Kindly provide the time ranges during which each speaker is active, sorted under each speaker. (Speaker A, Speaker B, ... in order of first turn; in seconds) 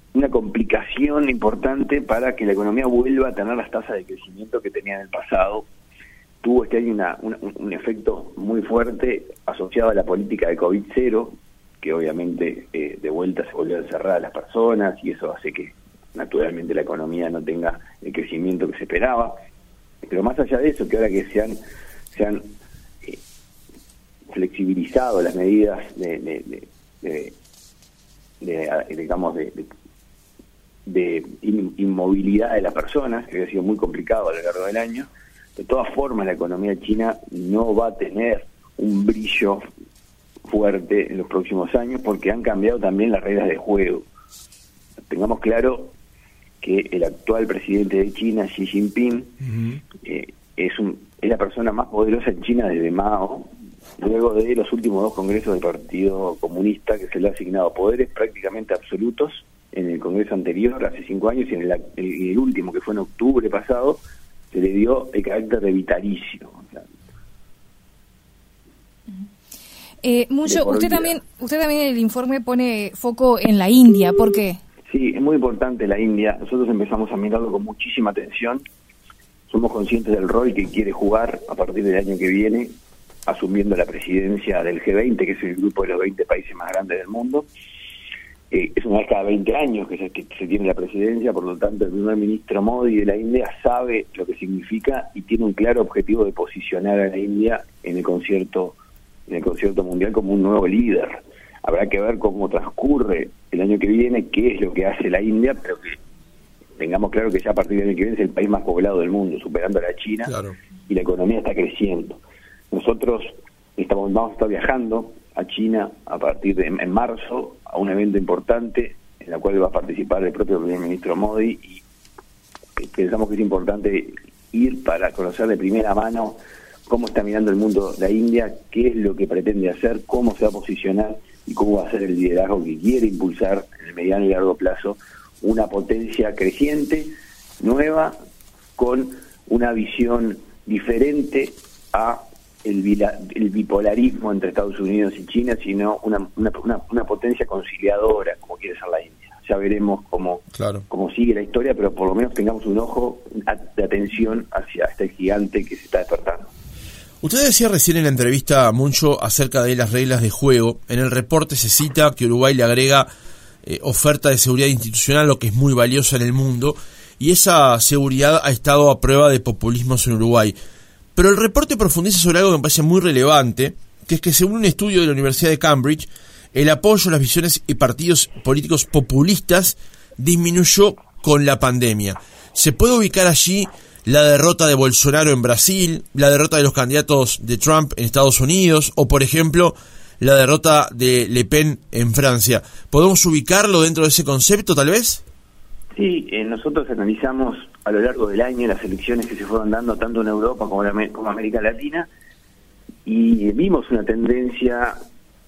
Speaker A: 0.1-5.7, 6.4-19.4, 20.0-21.6, 22.1-23.2, 24.3-27.4, 28.4-29.6, 30.9-39.6, 40.5-44.1, 45.1-45.9, 46.6-49.4, 50.0-64.0, 64.5-66.8, 70.5-71.2, 74.9-78.6, 79.5-87.5, 88.5-98.8, 99.3-106.0, 106.8-110.4, 110.9-121.8, 122.8-138.2, 138.8-156.5, 196.0-202.1, 203.1-205.0
Speaker B: 49.5-49.8, 110.3-110.5, 150.5-150.8, 157.2-163.1, 163.6-170.6, 171.1-195.2
Speaker C: 70.0-74.6